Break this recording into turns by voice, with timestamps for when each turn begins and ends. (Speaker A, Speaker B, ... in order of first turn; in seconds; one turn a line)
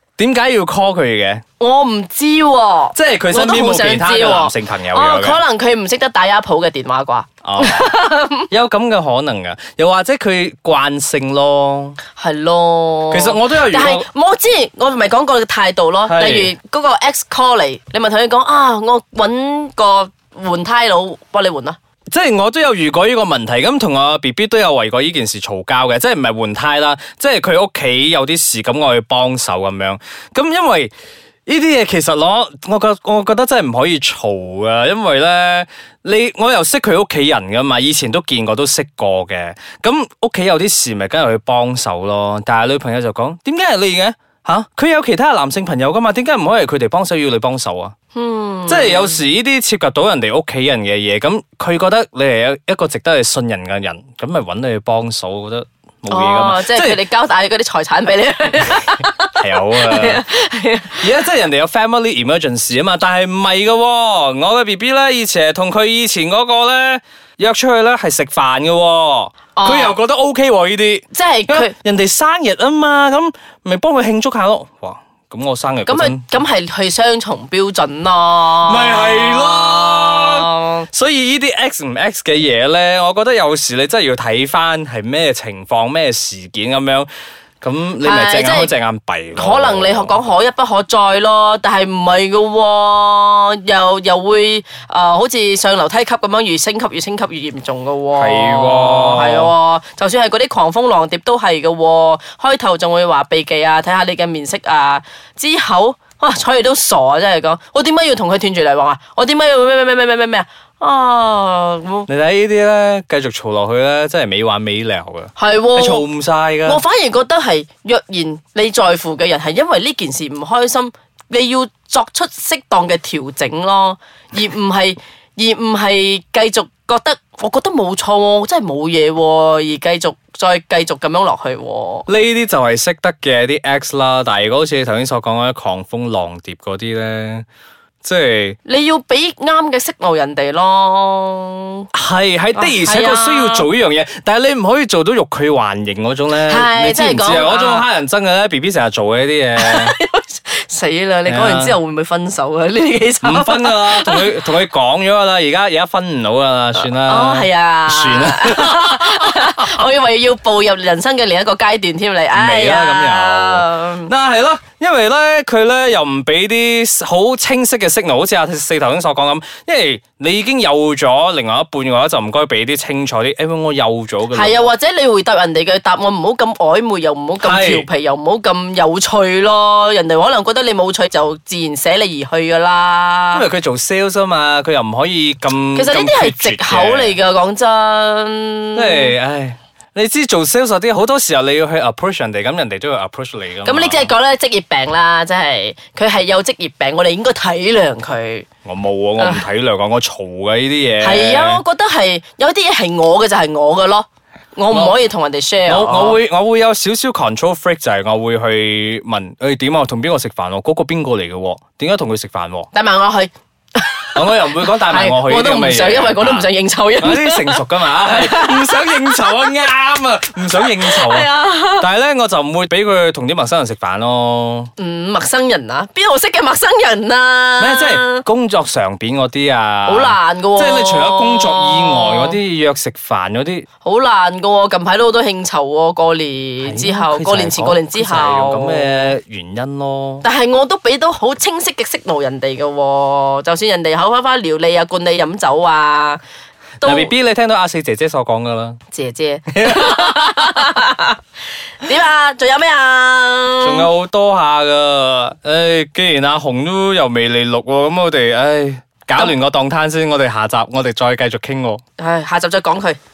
Speaker A: 0.2-1.4
Speaker B: 1.6-8.5
Speaker A: 3.0-5.4
Speaker A: 7.4-12.0
Speaker B: 12.2-21.8
Speaker A: 13.1-14.1
Speaker A: 16.1-16.5
Speaker A: 22.1-30.9
Speaker A: 31.5-48.0
Speaker B: 48.1-49.2
Speaker A: 48.7-57.0
Speaker B: 56.1-61.1
Speaker A: 59.4-60.2
Speaker A: 61.0-76.3
Speaker B: 69.5-70.0
Speaker B: 71.1-71.7
Speaker B: 75.9-80.9
Speaker A: 78.7-87.1
Speaker A: 87.6-90.2
Speaker B: 88.0-88.7
Speaker B: 89.4-112.1
Speaker A: 98.2-99.5
Speaker A: 112.1-116.8
Speaker B: 115.4-116.1
Speaker B: 116.7-132.1
Speaker A: 132.1-137.4
Speaker A: 138.0-138.6
Speaker B: 138.7-141.9
Speaker A: 141.9-150.0
Speaker B: 142.6-143.7
Speaker B: 146.5-147.9
Speaker B: 149.6-154.3
Speaker A: 151.3-151.8
Speaker A: 153.2-159.6
Speaker B: 156.8-164.1
Speaker A: 162.3-174.7
Speaker B: 174.3-183.5
Speaker A: 177.4-177.9
Speaker A: 183.3-187.2
Speaker B: 185.7-189.1
Speaker A: 188.8-194.1
Speaker B: 193.6-198.5
Speaker A: 198.7-201.6
Speaker B: 199.2-199.4
Speaker B: 201.0-206.2
Speaker A: 204.7-205.0
Speaker A: 205.7-212.7
Speaker B: 212.7-219.2
Speaker A: 214.2-224.7
Speaker B: 220.8-221.9
Speaker B: 224.8-228.2
Speaker A: 227.6-233.7
Speaker B: 229.9-232.4
Speaker B: 233.8-239.1
Speaker A: 236.6-240.3
Speaker B: 240.2-246.2
Speaker B: 246.8-247.1
Speaker A: 246.8-248.8
Speaker B: 248.9-251.2
Speaker A: 249.5-250.6
Speaker B: 251.8-253.9
Speaker A: 253.6-261.8
Speaker B: 262.0-263.0